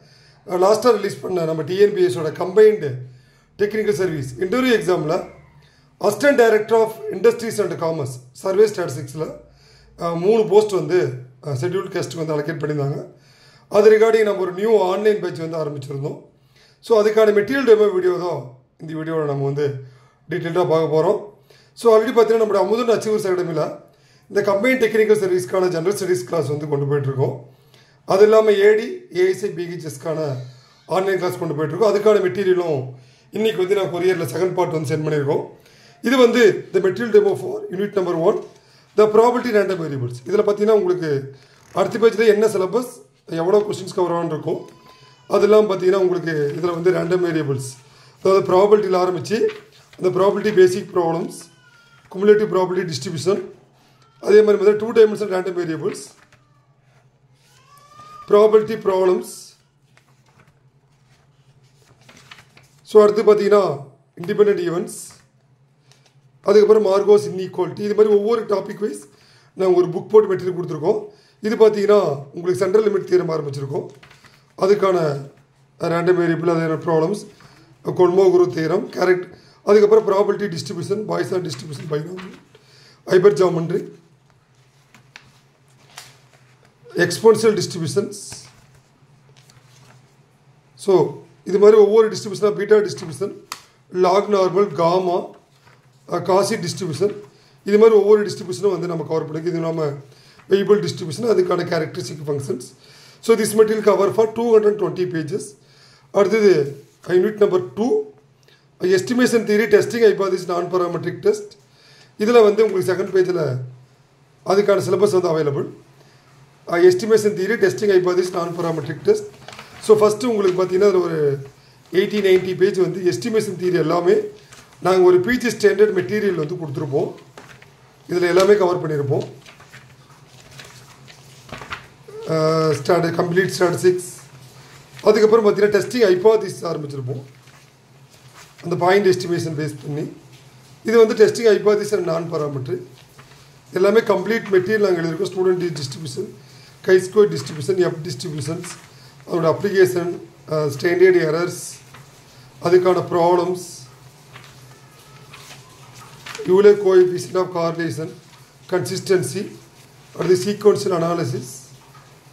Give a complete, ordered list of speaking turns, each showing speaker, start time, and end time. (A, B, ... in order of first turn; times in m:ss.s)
0:00.5-0:03.0 A
0:03.6-0:05.2 A
0:06.0-0:09.3 A
0:10.0-0:13.0 A
0:13.7-0:16.2 A
0:16.8-0:19.7 A
0:20.3-0:21.2 A
0:21.8-0:23.7 A
0:24.3-0:27.4 A
0:28.1-0:30.4 A
0:30.9-0:35.5 A
0:36.0-0:38.4 A
0:39.0-0:41.2 A
0:41.8-0:44.7 A
0:45.3-0:51.5 A
0:52.1-0:53.4 A
0:54.2-0:56.2 A
0:58.3-0:59.6 A
1:02.8-1:05.2 A
1:06.5-1:13.9 A
1:14.6-1:15.2 A
1:15.8-1:17.3 A
1:17.8-1:22.4 A
1:23.1-1:23.9 A
1:27.0-1:28.5 A
1:30.8-1:33.4 A
1:34.0-1:35.3 A
1:36.1-1:40.0 A
1:40.5-1:45.6 A
1:46.1-1:48.1 A
1:48.8-1:51.6 A
1:52.2-1:53.5 A
1:54.5-1:55.7 A
1:56.7-1:59.3 A
1:59.8-2:01.4 A
2:01.9-2:04.2 A
2:04.8-2:07.2 A
2:08.1-2:09.3 A
2:12.3-2:14.2 A
2:15.0-2:17.3 A
2:18.6-2:20.1 A
2:20.8-2:22.8 A
2:23.7-2:26.3 A
2:26.8-2:31.8 A
2:32.6-2:33.9 A
2:36.4-2:38.2 A
2:38.7-2:39.5 A
2:40.1-2:41.7 A